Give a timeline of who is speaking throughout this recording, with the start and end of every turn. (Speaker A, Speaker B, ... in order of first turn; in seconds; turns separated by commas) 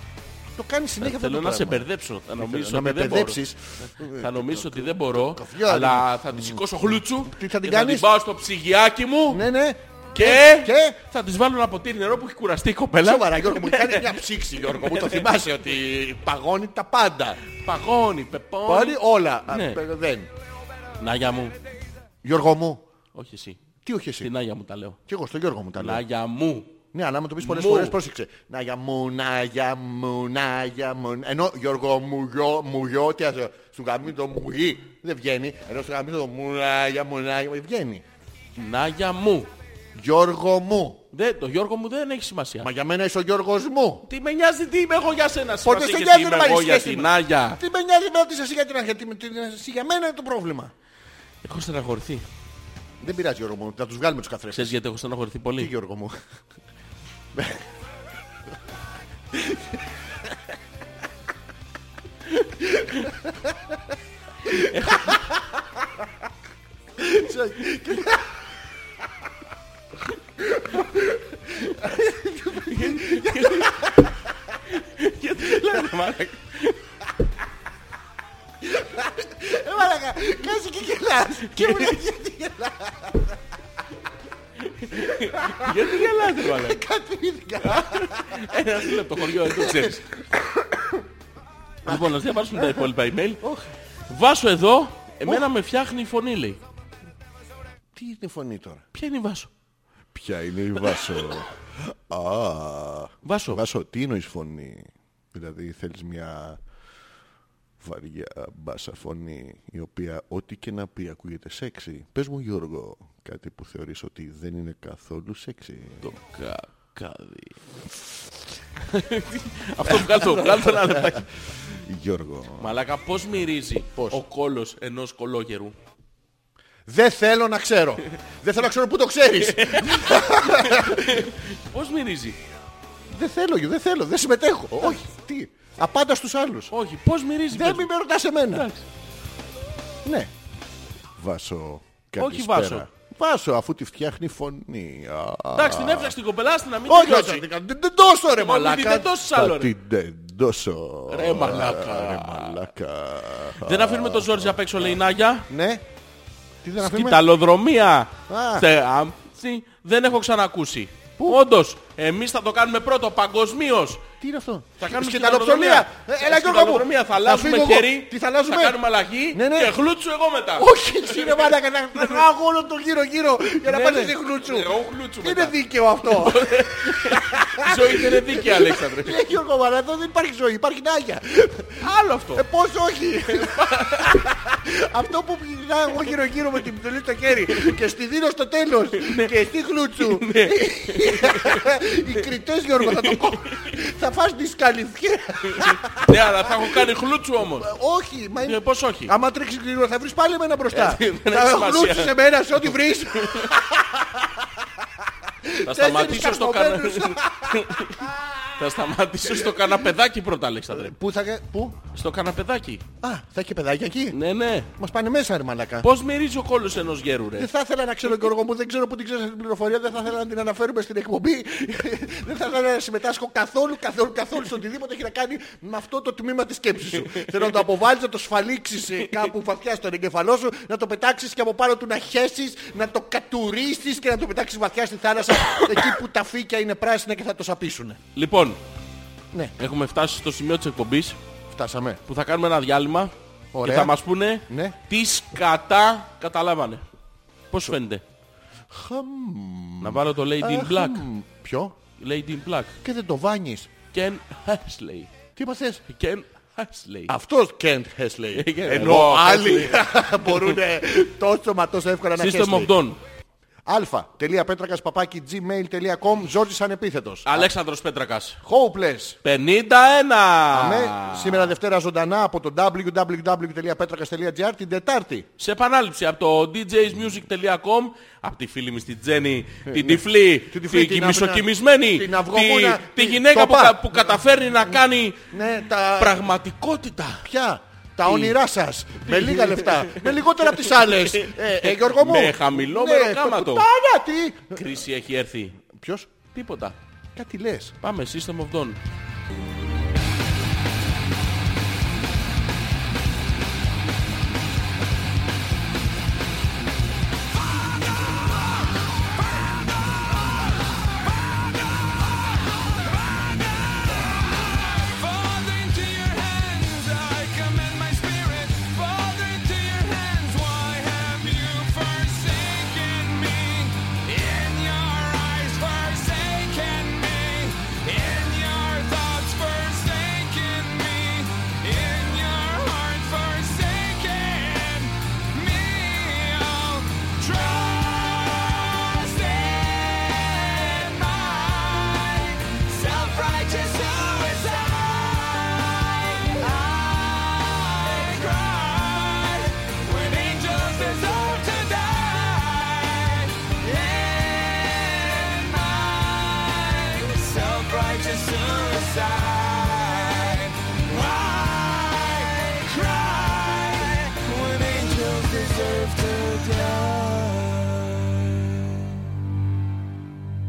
Speaker A: 0.6-8.1, Speaker B: 1.0-9.4, Speaker A: 9.3-11.0, Speaker B: 10.1-15.3, Speaker A: 13.0-17.4, Speaker B: 17.6-19.8, Speaker A: 18.6-20.3, Speaker B: 21.0-21.6, Speaker A: 22.2-22.9, Speaker B: 23.1-23.6, Speaker A: 23.8-24.3, Speaker B: 24.2-25.0, Speaker A: 25.1-26.0, Speaker B: 25.8-26.7, Speaker A: 26.9-38.0, Speaker B: 27.4-28.0, Speaker B: 38.5-39.5, Speaker A: 39.9-41.0, Speaker B: 41.1-42.7, Speaker A: 42.6-44.0, Speaker B: 44.0-47.6, Speaker A: 45.6-50.7, Speaker B: 51.4-52.2, Speaker A: 53.0-54.8, Speaker B: 54.5-55.7, Speaker A: 55.6-56.1, Speaker A: 57.3-57.7, Speaker A: 59.3-59.8, Speaker B: 62.3-63.1, Speaker A: 63.2-63.5, Speaker B: 64.5-65.2, Speaker A: 64.5-65.8, Speaker A: 67.0-68.4, Speaker A: 70.4-74.6, Speaker B: 72.7-74.0, Speaker B: 74.7-76.8, Speaker A: 75.4-75.9, Speaker A: 78.6-83.4, Speaker B: 81.4-82.0, Speaker B: 84.6-86.8, Speaker A: 84.9-91.0, Speaker B: 87.6-90.0, Speaker B: 91.8-93.5, Speaker A: 91.8-92.9, Speaker B: 94.1-96.6, Speaker A: 97.9-98.8, Speaker B: 98.9-99.5, Speaker A: 100.1-106.6, Speaker B: 103.2-103.6, Speaker A: 107.8-116.1, Speaker B: 116.0-117.6, Speaker B: 118.9-121.3, Speaker A: 119.8-122.7, Speaker B: 122.6-125.8, Speaker A: 124.0-124.2, Speaker A: 126.8-131.3, Speaker B: 129.4-132.4, Speaker A: 133.1-136.7, Speaker B: 136.7-137.9, Speaker A: 137.5-138.7, Speaker B: 138.5-138.8, Speaker A: 140.0-140.3, Speaker A: 141.2-146.2, Speaker B: 142.2-142.9, Speaker B: 145.5-147.4, Speaker A: 146.8-155.0, Speaker B: 148.3-149.7, Speaker B: 151.1-152.6, Speaker B: 153.6-155.5, Speaker A: 155.5-155.8, Speaker A: 156.6-157.2, Speaker B: 156.8-164.0, Speaker A: 158.3-158.7, Speaker A: 161.2-161.4, Speaker A: 164.2-169.7, Speaker B: 164.8-172.2, Speaker A: 170.6-208.7, Speaker B: 173.6-179.2, Speaker B: 181.8-182.4, Speaker B: 183.3-184.2, Speaker B: 189.0-189.3, Speaker B: 190.0-191.7, Speaker B: 192.8-193.8, Speaker B: 195.4-197.7, Speaker B: 198.4-199.1, Speaker B: 200.7-203.5, Speaker B: 205.6-210.9, Speaker A: 209.2-209.9, Speaker A: 210.7-211.8, Speaker B: 211.9-212.8, Speaker A: 213.0-214.2, Speaker B: 214.1-214.7, Speaker A: 214.8-215.9, Speaker B: 215.8-217.5, Speaker A: 217.4-238.0, Speaker B: 227.2-227.4, Speaker B: 238.1-238.6, Speaker B: 239.6-241.2, Speaker A: 241.5-242.0, Speaker B: 242.1-246.8, Speaker A: 243.5-244.8, Speaker B: 247.5-248.0, Speaker A: 248.7-251.8, Speaker B: 249.8-251.1, Speaker B: 252.0-252.8, Speaker A: 252.8-253.7, Speaker B: 253.9-255.1, Speaker A: 255.3-255.8, Speaker B: 255.9-257.1, Speaker A: 257.1-262.8, Speaker B: 258.3-260.6, Speaker B: 262.2-263.0, Speaker A: 263.6-267.5, Speaker B: 267.2-268.4, Speaker A: 268.4-269.2, Speaker B: 269.2-271.5, Speaker A: 270.5-275.3, Speaker B: 275.4-285.3, Speaker A: 279.6-284.2, Speaker A: 285.3-286.2, Speaker B: 285.9-287.3, Speaker A: 287.2-294.8, Speaker B: 288.0-288.4, Speaker B: 289.0-293.7, Speaker B: 294.5-295.6, Speaker A: 295.6-296.1, Speaker B: 296.3-296.8, Speaker A: 297.1-297.7, Speaker B: 297.8-298.8, Speaker C: 309.2-368.1